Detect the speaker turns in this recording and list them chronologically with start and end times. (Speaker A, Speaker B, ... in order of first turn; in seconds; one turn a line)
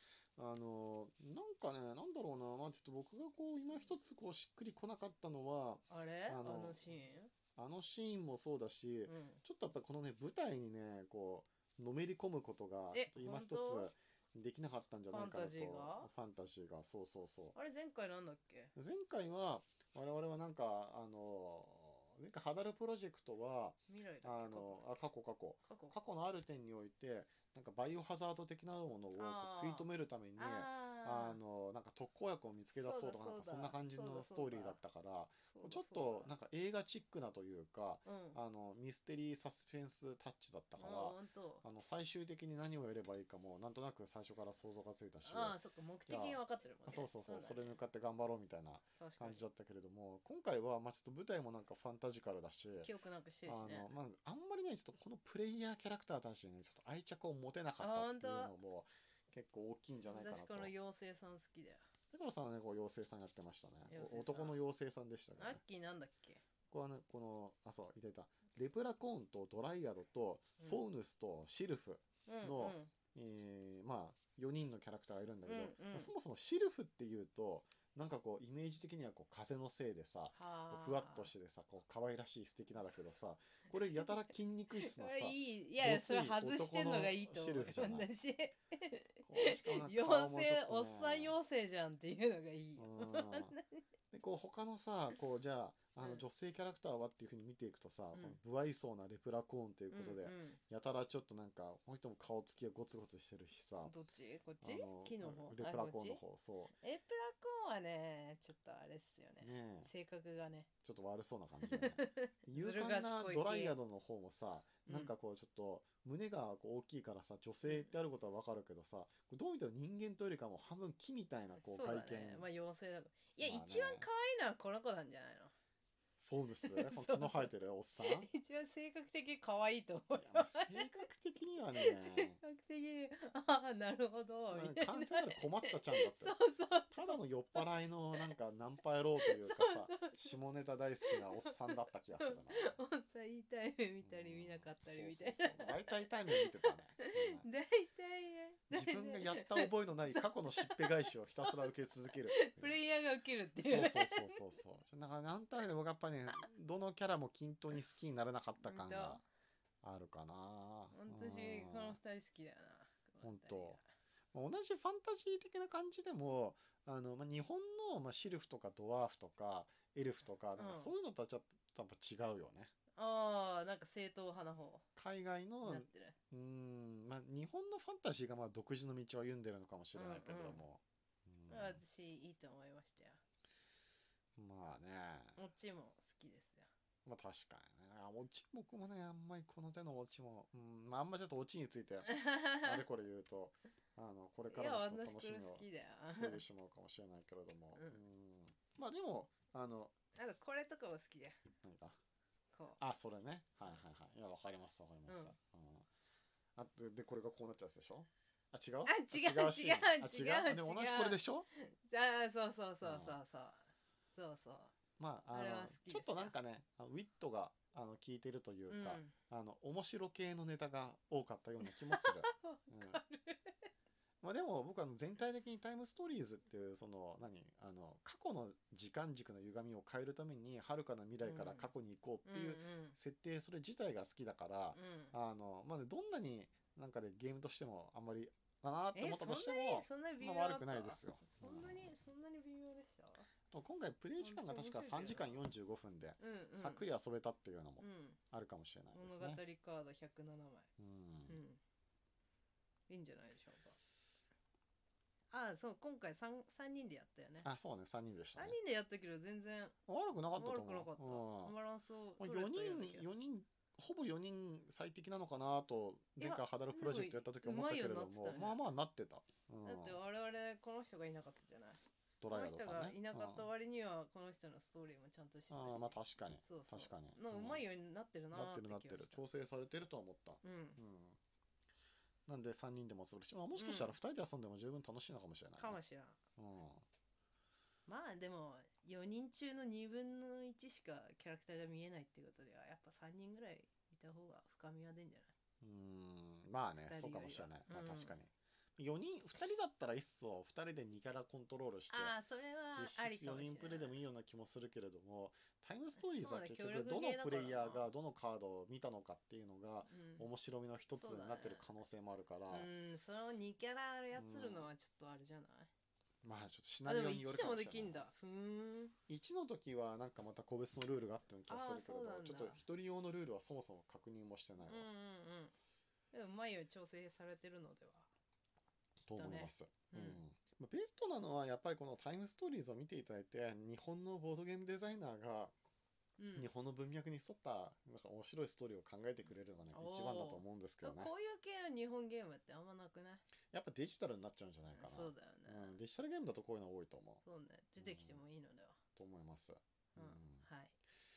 Speaker A: 0.3-7.0
Speaker B: 5.9-7.3
Speaker A: 7.5-17.6
Speaker B: 9.1-9.4
Speaker B: 12.9-13.9
Speaker B: 15.1-16.1
Speaker B: 17.5-18.7
Speaker A: 18.8-52.9
Speaker B: 23.9-25.0
Speaker B: 25.6-25.9
Speaker B: 29.1-31.4
Speaker B: 32.8-34.8
Speaker B: 35.5-36.3
Speaker B: 38.0-38.4
Speaker B: 40.8-41.6
Speaker B: 45.2-47.8
Speaker B: 49.0-49.4
Speaker B: 52.8-53.9
Speaker A: 53.5-60.7
Speaker B: 57.8-58.5
Speaker B: 60.1-61.8
Speaker A: 62.1-65.6
Speaker B: 63.9-64.6
Speaker B: 65.4-66.4
Speaker A: 66.7-88.1
Speaker B: 70.6-70.8
Speaker B: 72.3-72.9
Speaker B: 75.5-76.1
Speaker B: 80.3-81.3
Speaker B: 84.8-93.8
Speaker A: 89.2-91.4
Speaker A: 92.8-93.6
Speaker A: 94.1-103.9
Speaker B: 96.0-96.2
Speaker B: 99.9-100.6
Speaker B: 103.8-106.2
Speaker A: 104.6-106.7
Speaker B: 106.8-110.7
Speaker A: 109.4-109.9
Speaker A: 110.8-122.5
Speaker B: 111.6-113.8
Speaker B: 114.9-115.1
Speaker B: 121.6-125.5
Speaker A: 123.4-124.1
Speaker A: 126.2-128.3
Speaker B: 126.6-130.9
Speaker A: 130.1-132.4
Speaker B: 131.8-137.6
Speaker A: 134.5-136.4
Speaker A: 136.9-142.8
Speaker B: 139.2-140.3
Speaker B: 141.1-151.6
Speaker A: 144.0-147.4
Speaker A: 148.7-152.8
Speaker B: 152.3-154.6
Speaker A: 153.6-159.2
Speaker B: 158.6-159.2
Speaker A: 159.8-162.0
Speaker B: 160.9-163.8
Speaker A: 163.2-163.8
Speaker A: 164.3-172.7
Speaker B: 170.6-170.9
Speaker B: 172.9-174.8
Speaker A: 175.0-181.8
Speaker B: 175.6-176.2
Speaker B: 179.9-180.6
Speaker B: 181.5-183.2
Speaker A: 184.4-185.4
Speaker B: 185.4-186.7
Speaker A: 187.0-199.9
Speaker B: 192.1-192.8
Speaker B: 194.5-196.4
Speaker B: 197.8-198.0
Speaker B: 200.1-201.4
Speaker A: 201.6-202.0
Speaker B: 202.5-202.8
Speaker A: 202.8-205.9
Speaker B: 205.1-205.3
Speaker A: 206.6-211.5
Speaker B: 208.9-214.8
Speaker A: 212.8-213.2
Speaker A: 215.0-223.0
Speaker B: 215.3-216.3
Speaker B: 218.7-219.1
Speaker B: 221.6-223.5
Speaker A: 224.2-241.9
Speaker B: 231.2-231.7
Speaker B: 232.2-233.0
Speaker B: 234.7-235.1
Speaker B: 238.9-243.3
Speaker A: 243.5-249.4
Speaker B: 244.2-245.4
Speaker B: 246.2-246.9
Speaker B: 247.8-248.2
Speaker B: 248.9-250.7
Speaker A: 250.8-251.4
Speaker B: 251.3-251.6
Speaker B: 252.9-253.8
Speaker B: 255.3-257.5
Speaker A: 257.4-258.6
Speaker B: 258.4-259.8
Speaker A: 259.9-261.5
Speaker B: 260.4-263.1
Speaker A: 262.2-270.0
Speaker B: 266.2-268.6
Speaker B: 269.6-279.2
Speaker A: 272.2-273.5
Speaker A: 275.5-277.6
Speaker A: 278.3-281.2
Speaker B: 280.4-280.8
Speaker A: 282.3-285.8
Speaker B: 283.5-284.0
Speaker B: 285.6-286.2
Speaker A: 286.4-286.8
Speaker B: 287.9-295.3
Speaker A: 295.6-302.1
Speaker B: 296.8-298.2
Speaker B: 301.9-304.0
Speaker A: 302.7-312.7
Speaker B: 306.0-307.9
Speaker B: 309.9-310.3
Speaker B: 310.9-311.7
Speaker B: 312.5-315.7
Speaker A: 314.1-314.7
Speaker A: 316.2-318.1
Speaker B: 316.9-318.9
Speaker A: 319.1-324.9
Speaker B: 321.5-322.6
Speaker B: 324.6-325.5
Speaker B: 326.1-328.1
Speaker A: 329.0-335.5
Speaker B: 329.1-330.2
Speaker B: 336.2-336.5
Speaker A: 336.4-341.1
Speaker B: 339.7-343.2
Speaker A: 343.5-347.2
Speaker B: 344.8-345.8
Speaker B: 347.2-348.8
Speaker A: 347.8-348.2
Speaker A: 349.0-350.4
Speaker B: 350.0-350.8